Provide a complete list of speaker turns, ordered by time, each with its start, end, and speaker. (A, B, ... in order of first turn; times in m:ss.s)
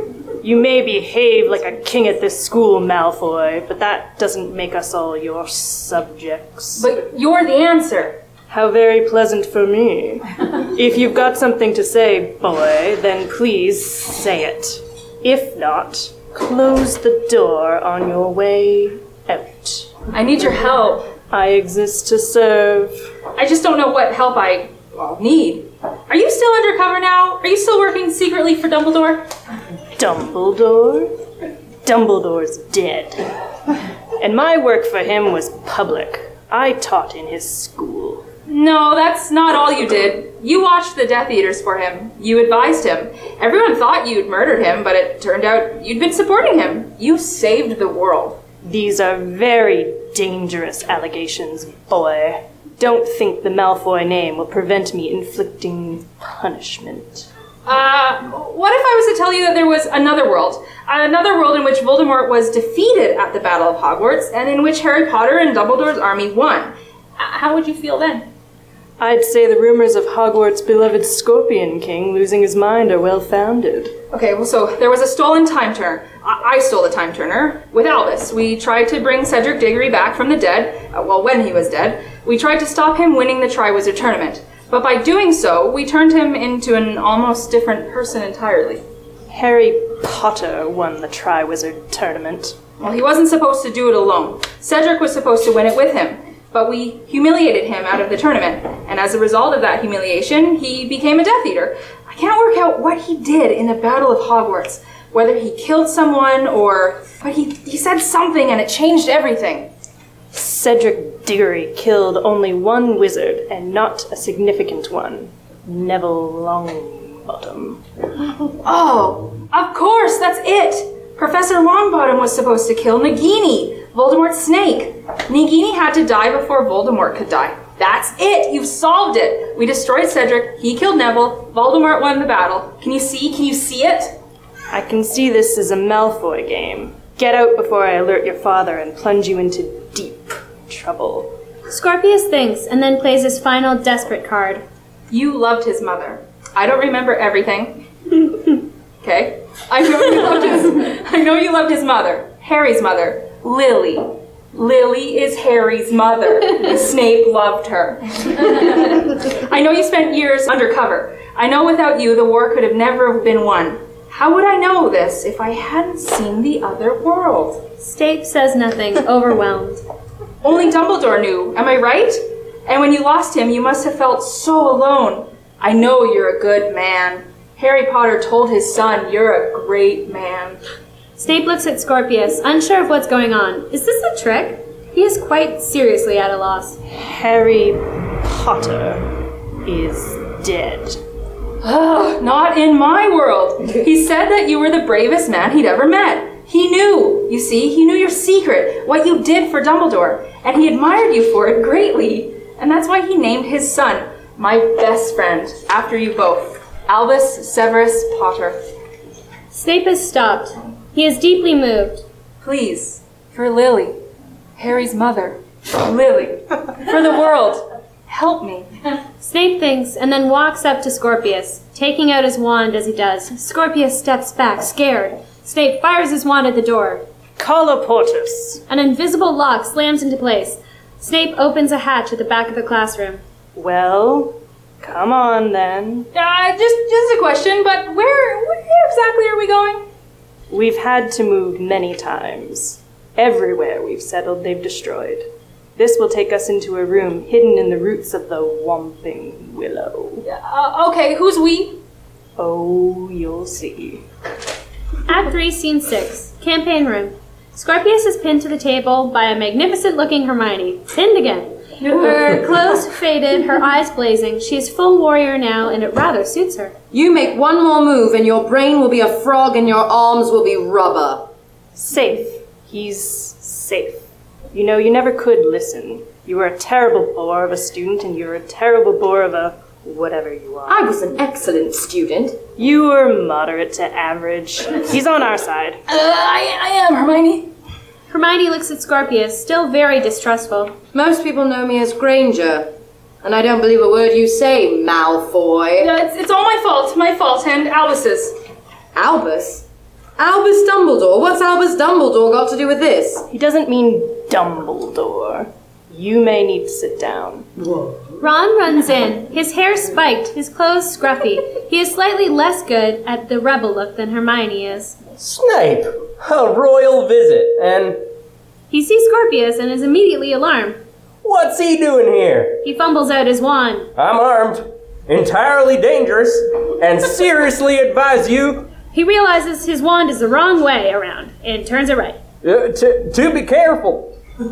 0:00.4-0:06.9 A
0:06.8-0:08.2 B
0:08.5-0:19.9 A
0:20.1-0:21.1 B
0:21.3-0:23.0 A
0:23.4-0:29.3 B
0:30.0-0:31.1 A
0:31.8-0:33.3 A
0:34.2-0:38.2 A
0:38.5-0:48.4 B
0:48.6-0:57.3 A
0:57.7-1:08.3 B
1:09.0-1:14.0 A
1:14.1-1:28.8 B
1:29.3-1:32.6 A
1:32.8-1:49.7 B
1:50.3-1:57.8 A
1:58.6-2:14.2 B
2:14.7-2:21.3 A
2:21.7-2:24.6 C
2:25.1-2:28.3 B
2:29.0-2:47.6 B
2:47.8-2:49.8 C
2:50.4-3:00.6 B
3:01.2-3:06.8 C
3:06.8-3:11.0 A
3:11.6-3:28.6 B
3:29.5-3:32.0 C
3:32.4-3:34.0 B
3:34.6-3:38.7 B
3:39.2-3:47.0 C
3:47.4-3:48.6 A
3:48.7-3:53.2 C
3:53.6-3:56.1 A
3:56.1-3:59.9 B
4:00.5-4:10.2 A
4:10.2-4:11.8 B
4:12.4-4:14.0 A
4:15.1-4:26.7 C
4:26.9-4:31.3 D
4:31.8-4:40.9 A
4:40.7-4:42.4 D
4:42.6-4:45.8 A
4:45.9-4:47.5 B
4:48.1-4:50.7 C
4:50.9-4:52.7 D
4:53.2-4:55.9 D
4:55.8-4:58.4 B
4:58.9-4:59.6 D
5:00.2-5:03.3 D
5:03.3-5:07.5 A
5:07.7-5:08.0 D
5:08.2-5:15.0 C
5:15.2-5:18.0 E
5:18.7-5:20.8 C
5:21.2-5:22.6 E
5:22.6-5:23.9 C
5:24.0-5:28.7 E
5:28.9-5:32.2 C
5:32.4-5:34.1 E